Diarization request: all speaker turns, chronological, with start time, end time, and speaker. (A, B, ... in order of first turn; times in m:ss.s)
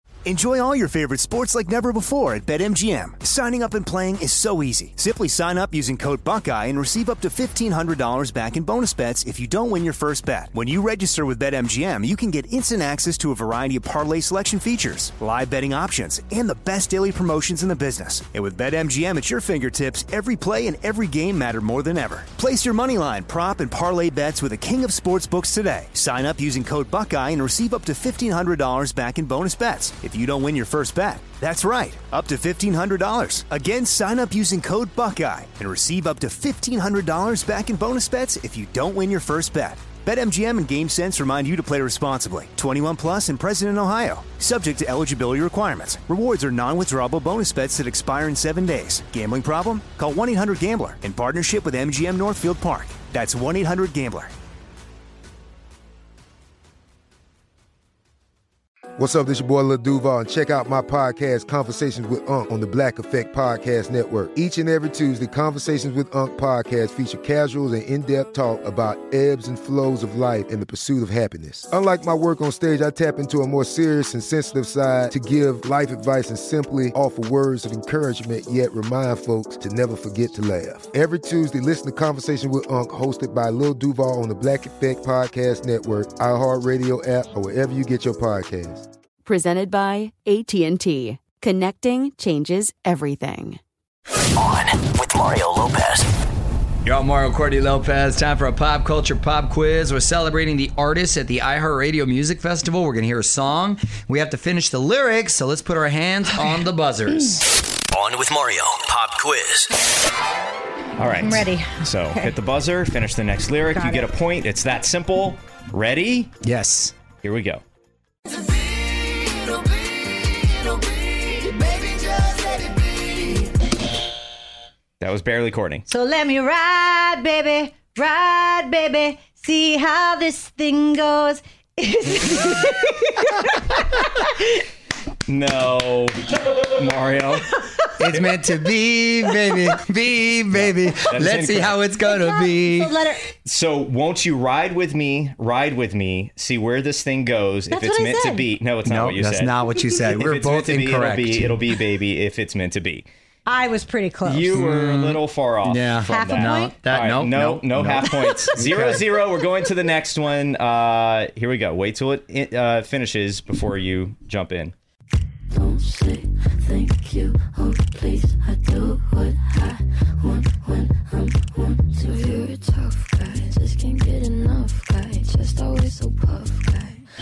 0:00.2-0:54.3 A
0:59.0-1:28.9 B
1:29.3-1:33.6 C
1:34.4-1:36.1 D
1:36.8-1:47.4 E
1:47.9-1:49.7 D
1:51.0-1:56.3 F
1:51.1-1:52.3 G
1:53.7-1:54.1 G
1:56.4-1:56.9 E
1:57.2-1:57.6 F
2:01.2-2:01.6 G
2:02.2-2:02.9 G
2:05.0-2:05.8 F
2:05.9-2:14.4 G
2:15.3-2:17.9 F
2:18.0-2:23.0 E
2:20.5-2:21.8 F
2:22.1-2:23.3 G
2:23.4-2:29.5 F
2:27.7-2:28.5 G
2:28.8-2:31.6 E
2:30.1-2:33.1 F
2:33.5-2:34.6 G
2:34.2-2:44.7 F
2:34.5-2:39.1 E
2:36.1-2:36.8 G
2:38.0-2:38.5 G
2:45.7-2:48.5 H
2:48.7-2:49.2 G
2:51.7-2:52.4 H
2:53.5-2:56.6 H